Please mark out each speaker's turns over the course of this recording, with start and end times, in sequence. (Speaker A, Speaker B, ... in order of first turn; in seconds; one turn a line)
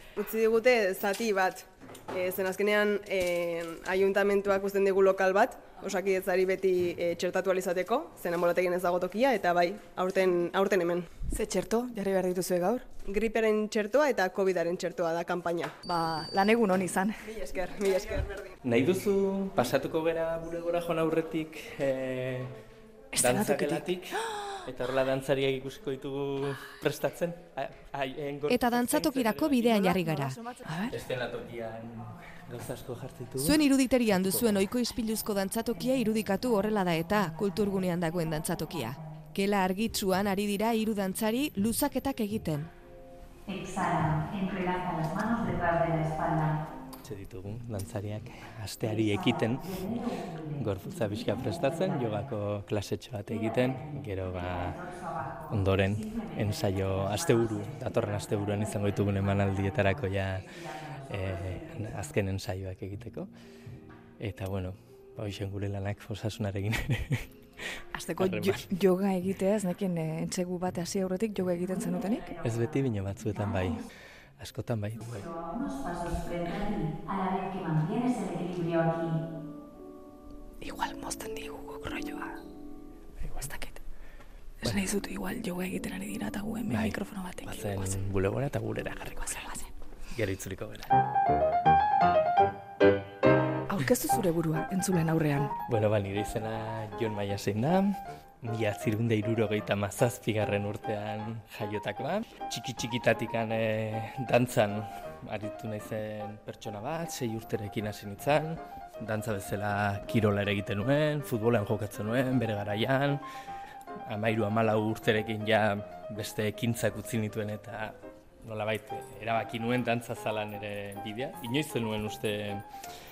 Speaker A: 0.2-11.1
Speaker B: 11.3-12.9
Speaker A: 13.0-15.7
Speaker B: 15.8-17.4
Speaker A: 17.3-18.5
Speaker C: 18.6-22.5
Speaker B: 23.1-24.4
Speaker C: 23.2-29.8
Speaker D: 28.5-30.4
Speaker B: 29.6-30.9
Speaker C: 30.9-34.6
Speaker D: 33.4-42.7
Speaker E: 43.5-46.6
Speaker C: 47.0-49.9
Speaker E: 48.8-52.3
Speaker C: 50.5-54.8
Speaker E: 53.3-62.1
Speaker C: 55.5-60.5
Speaker C: 61.1-63.3
Speaker C: 64.2-67.3
Speaker B: 67.9-72.3
Speaker C: 68.2-68.7
Speaker E: 71.7-72.6
Speaker C: 72.4-73.8
Speaker E: 73.3-73.8
Speaker C: 74.4-75.3
Speaker E: 75.0-79.2
Speaker B: 80.6-82.4
Speaker C: 83.2-83.5
Speaker B: 83.4-83.8
Speaker B: 84.6-88.0
Speaker C: 86.7-89.5
Speaker B: 89.2-89.7
Speaker C: 90.1-90.9
Speaker B: 93.7-95.5
Speaker C: 95.7-113.2
Speaker C: 114.0-122.7